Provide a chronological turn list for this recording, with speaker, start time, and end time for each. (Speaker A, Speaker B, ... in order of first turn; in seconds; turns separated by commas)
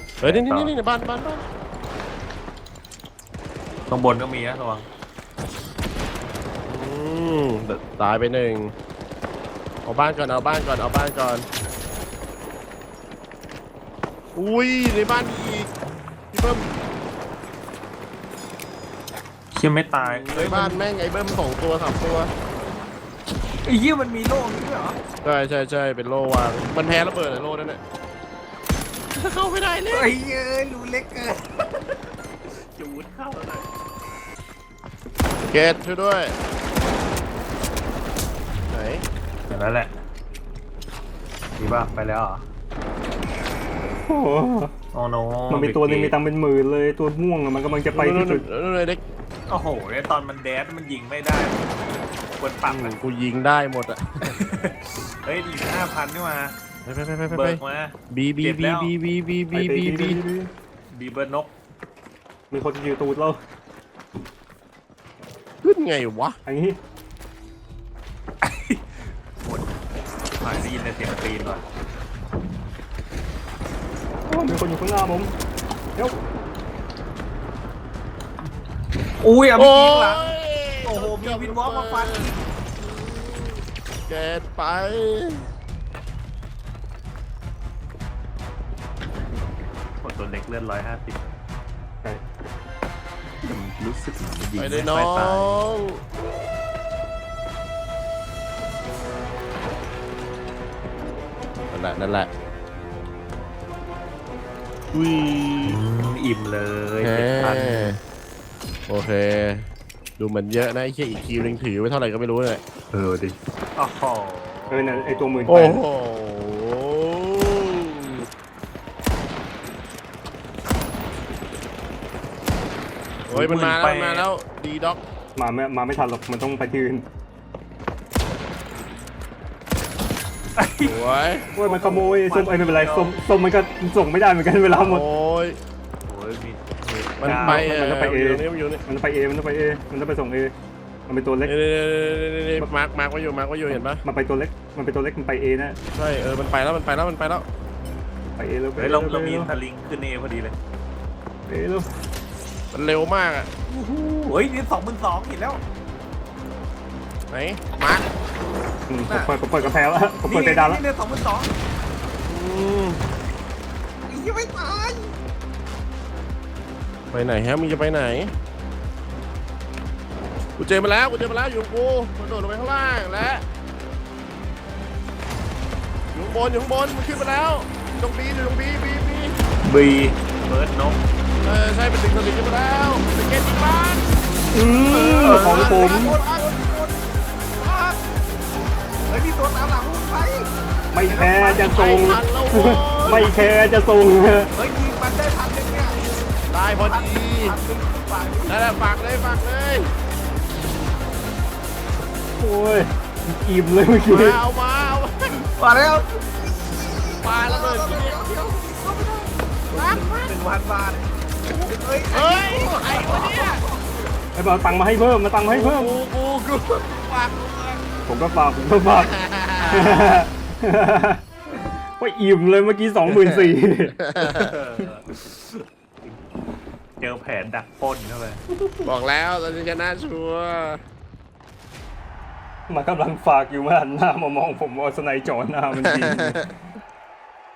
Speaker A: 0.2-0.7, Speaker B: 0.2-1.4, Speaker A: 3.9-4.9, Speaker B: 6.7-8.7, Speaker B: 9.8-11.5, Speaker B: 14.3-15.7, Speaker B: 16.3-16.7, Speaker A: 19.6-20.9, Speaker B: 20.0-22.3, Speaker A: 23.6-25.0, Speaker B: 25.2-27.8, Speaker B: 29.1-30.1, Speaker A: 29.9-31.6, Speaker A: 32.5-33.7, Speaker B: 35.4-36.4, Speaker B: 38.7-39.0, Speaker A: 39.5-40.0, Speaker A: 41.6-42.5, Speaker C: 44.1-44.7, Speaker A: 44.9-46.2, Speaker C: 45.5-48.5, Speaker B: 47.9-49.0, Speaker A: 49.5-53.0, Speaker B: 52.7-54.4, Speaker A: 54.2-56.6, Speaker B: 56.9-60.2, Speaker A: 57.3-58.9, Speaker C: 59.5-60.5, Speaker A: 60.9-61.5, Speaker C: 62.5-63.4, Speaker B: 65.6-66.4, Speaker C: 66.5-66.8, Speaker A: 68.4-68.8, Speaker A: 69.4-69.7, Speaker A: 70.4-71.7, Speaker C: 74.3-75.3, Speaker A: 79.2-82.4, Speaker B: 79.6-85.5, Speaker A: 90.0-91.4, Speaker A: 93.4-95.7, Speaker B: 94.6-96.0, Speaker B: 101.7-102.3, Speaker B: 104.9-105.8, Speaker A: 105.6-107.9, Speaker B: 107.0-108.0, Speaker B: 108.9-112.6, Speaker A: 112.9-115.5, Speaker C: 114.7-115.8, Speaker B: 115.5-118.2, Speaker B: 123.3-125.0, Speaker A: 123.3-124.3, Speaker C: 125.3-127.1, Speaker A: 130.6-133.2, Speaker B: 130.8-131.5, Speaker C: 131.6-135.1, Speaker B: 134.7-135.6, Speaker A: 136.1-137.7, Speaker B: 136.9-138.8, Speaker C: 137.2-140.6, Speaker C: 141.1-141.5, Speaker B: 141.4-144.0, Speaker C: 144.0-145.8, Speaker B: 145.9-147.5, Speaker C: 148.3-149.6, Speaker A: 148.8-150.6, Speaker C: 151.5-151.9, Speaker B: 152.7-153.5, Speaker A: 153.7-155.6, Speaker B: 157.3-158.1, Speaker C: 158.9-160.8, Speaker A: 159.1-159.4, Speaker A: 160.2-161.5, Speaker B: 162.2-163.0, Speaker A: 164.1-165.1, Speaker B: 167.1-168.3, Speaker B: 170.6-173.4, Speaker B: 176.1-179.4, Speaker A: 179.6-181.0, Speaker B: 181.4-184.1, Speaker C: 184.5-186.2, Speaker B: 184.9-186.5, Speaker A: 185.2-187.0, Speaker B: 187.6-188.0, Speaker A: 189.1-190.5, Speaker C: 190.9-194.5, Speaker B: 191.0-193.3, Speaker A: 194.6-196.1, Speaker B: 196.5-197.6, Speaker A: 196.7-198.6, Speaker B: 198.5-199.9, Speaker C: 202.4-204.4, Speaker B: 204.0-205.5, Speaker A: 205.6-213.9, Speaker B: 207.2-208.2, Speaker B: 209.7-210.4, Speaker B: 211.5-213.6, Speaker C: 214.3-216.0, Speaker B: 215.4-217.8, Speaker C: 218.1-221.2, Speaker B: 218.9-220.2, Speaker C: 222.0-224.5, Speaker B: 223.1-223.5, Speaker A: 224.2-226.2, Speaker A: 227.0-228.4, Speaker C: 228.6-228.9, Speaker B: 228.8-230.8, Speaker C: 232.7-236.6, Speaker B: 235.8-236.2